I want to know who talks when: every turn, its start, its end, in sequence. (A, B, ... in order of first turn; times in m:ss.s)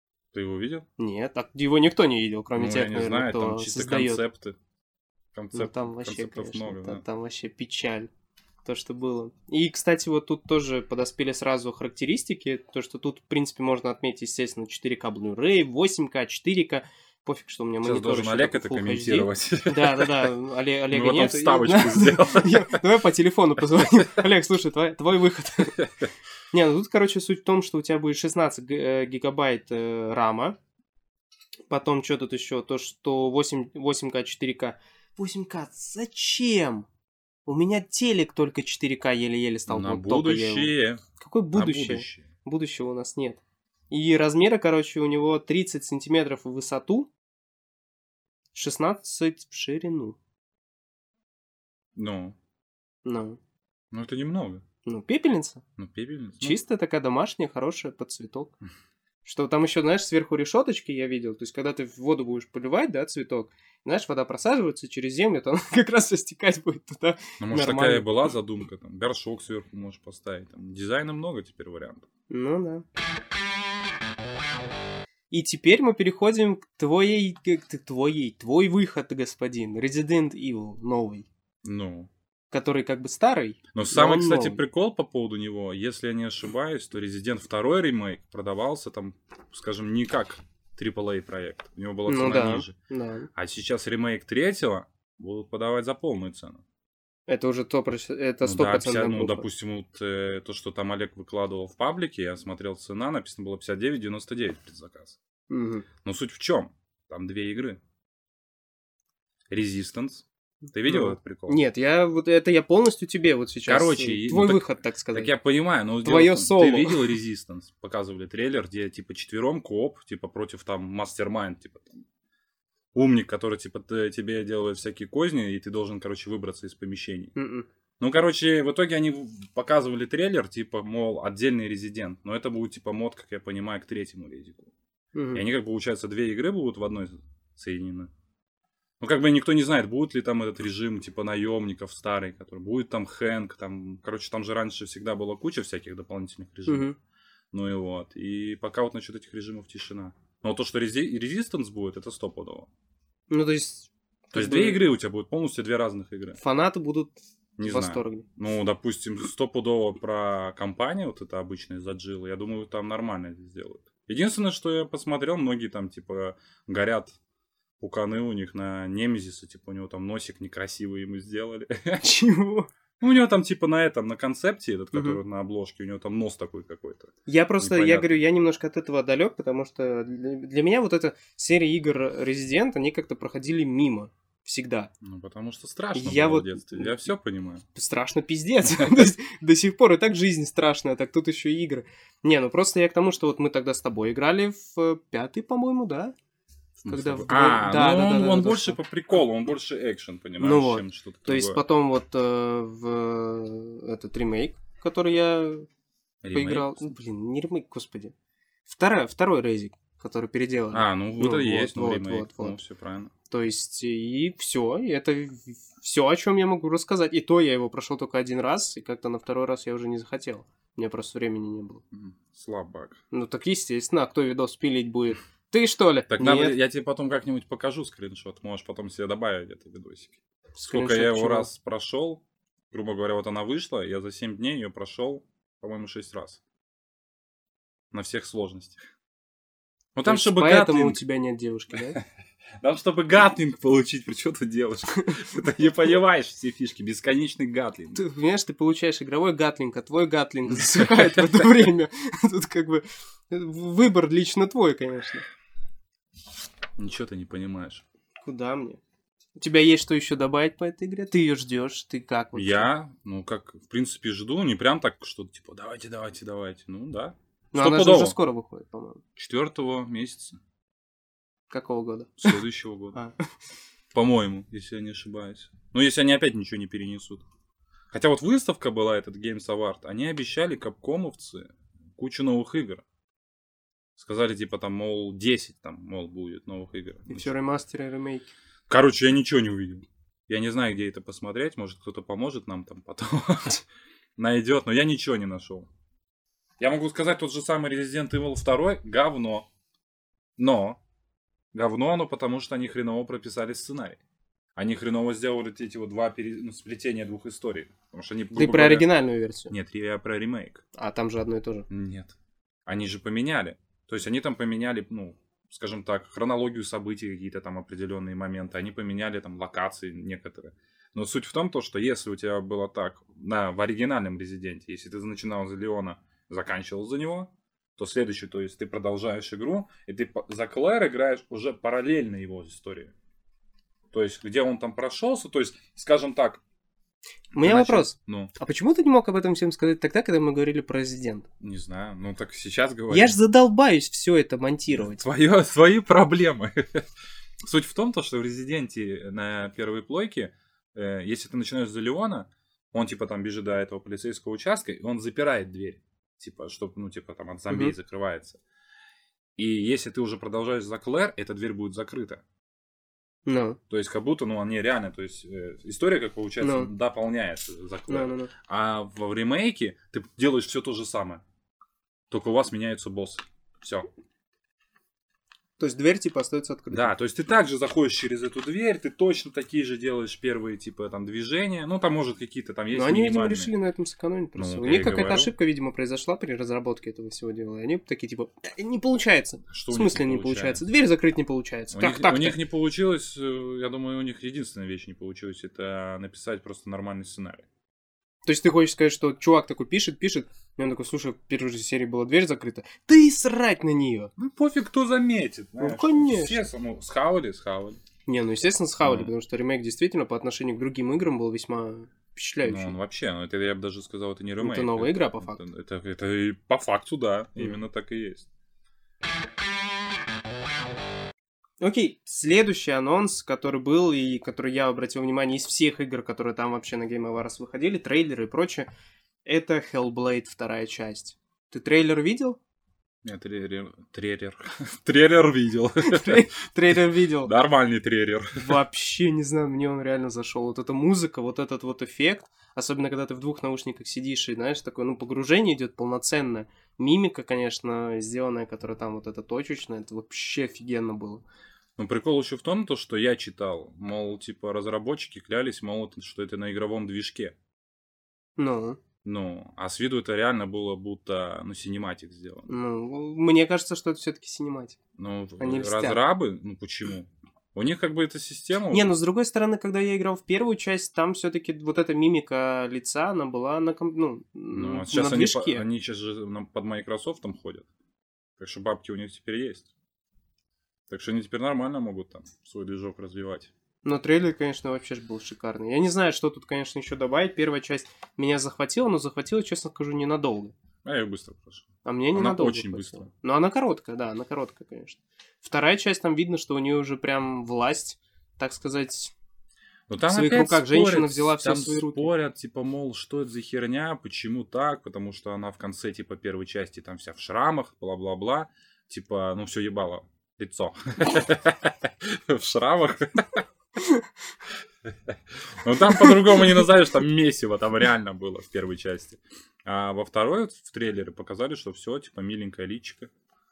0:00.3-0:00.9 A
0:01.0-0:04.2 B
0:02.6-0:04.6 A
0:05.3-0:07.0 A
0:05.5-0:08.1 B
0:08.6-0:25.8 B
0:17.8-0:20.3 A
0:20.9-0:22.8 A
0:23.8-0:24.0 A
0:25.8-0:26.1 A
0:26.5-0:30.6 B
0:31.7-0:36.9 B
0:37.5-0:47.1 B
0:39.7-0:42.3 A
0:48.6-0:50.2 B
0:52.0-0:52.4 A
0:53.0-0:53.4 B
0:53.9-0:54.6 A
0:54.8-0:55.6 B
0:55.8-0:56.6 A
0:56.4-0:58.6 B
0:59.2-1:08.1 B
1:07.4-1:12.1 A
1:12.3-1:12.8 B
1:15.3-1:21.3 B
1:21.6-1:22.1 A
1:22.5-1:24.6 B
1:23.7-1:32.8 A
1:32.1-1:33.3 B
1:33.3-1:36.6 A
1:37.3-1:39.5 B
1:38.4-1:45.2 A
1:45.5-1:45.9 B
1:46.0-1:47.8 A
1:49.5-1:51.6 A
1:50.8-1:55.3 B
1:53.7-2:02.0 A
1:56.0-1:57.1 B
2:02.9-2:07.3 A
2:07.4-2:07.7 B
2:08.0-2:14.7 A
2:15.2-2:15.4 B
2:15.3-2:18.1 A
2:19.0-2:26.9 A
2:26.7-2:27.0 B
2:27.5-2:32.7 A
2:33.3-2:34.8 B
2:34.3-2:36.4 A
2:36.4-2:38.2 B
2:37.6-2:47.2 A
2:47.8-2:52.0 A
2:52.0-2:52.7 B
2:53.0-2:58.2 A
2:54.9-2:55.2 B
2:57.3-3:04.9 B
3:05.0-3:07.6 A
3:05.9-3:07.0 B
3:07.7-3:16.1 B
3:08.6-3:09.1 A
3:16.8-3:21.6 A
3:16.9-3:18.8 B
3:20.4-3:25.7 B
3:26.2-3:26.8 A
3:26.3-3:28.1 B
3:28.7-3:32.6 B
3:30.7-3:33.1 A
3:33.3-3:41.8 B
3:41.9-3:43.0 A
3:43.1-3:46.6 B
3:46.1-3:56.4 A
3:50.6-3:51.5 B
3:57.9-3:58.8 A
4:00.0-4:01.0 A
4:00.0-4:02.0 B
4:02.6-4:08.0 A
4:07.9-4:15.2 B
4:10.5-4:11.6 A
4:16.8-4:17.8 A
4:18.2-4:18.8 B
4:19.4-4:22.7 B
4:22.3-4:28.2 A
4:27.5-4:29.0 B
4:29.2-4:30.4 A
4:31.5-4:32.4 B
4:32.2-4:33.0 A
4:33.9-4:37.2 A
4:37.9-4:42.8 A
4:44.0-4:47.3 A
4:47.1-4:48.3 B
4:48.7-4:53.6 A
4:54.2-4:55.7 A
4:56.6-4:59.5 A
5:00.4-5:00.8 A
5:01.5-5:04.0 A
5:04.6-5:08.9 A
5:08.3-5:09.5 B
5:09.5-5:10.6 A
5:10.8-5:11.7 B
5:11.7-5:32.9 A
5:33.9-5:36.4 A
5:37.3-5:41.3 B
5:37.4-5:38.3 A
5:41.4-5:43.2 A
5:42.9-5:45.0 B
5:44.7-5:46.8 A
5:47.4-5:58.4 A
5:59.4-6:02.2 A
6:03.3-6:03.6 B
6:03.7-6:11.2 A
6:06.4-6:06.7 B
6:07.9-6:08.3 B
6:12.1-6:13.9 A
6:15.6-6:16.9 B
6:16.7-6:23.5 A
6:22.7-6:32.4 B
6:24.4-6:25.3 A
6:29.5-6:30.6 A
6:31.7-6:37.5 A
6:38.2-6:44.1 B
6:44.2-6:47.8 A
6:45.6-6:46.4 B
6:48.1-6:52.8 B
6:48.8-6:49.1 A
6:52.4-6:58.3 A
6:54.4-6:55.4 B
7:01.6-7:08.7 B
7:09.2-7:12.4 B
7:13.0-7:16.3 A
7:15.8-7:17.3 B
7:17.2-7:18.6 A
7:18.4-7:31.2 B
7:31.8-7:37.4 A
7:38.4-7:38.8 B
7:39.0-7:42.5 A
7:42.5-7:44.8 B
7:45.0-7:48.9 A
7:45.4-7:46.0 B
7:48.7-7:55.6 B
7:54.5-7:57.7 A
7:58.4-7:59.7 A
8:00.9-8:03.5 A
8:03.8-8:10.5 B
8:10.8-8:13.1 A
8:11.8-8:19.1 B
8:19.9-8:33.4 A
8:20.1-8:22.1 B
8:34.9-8:43.1 A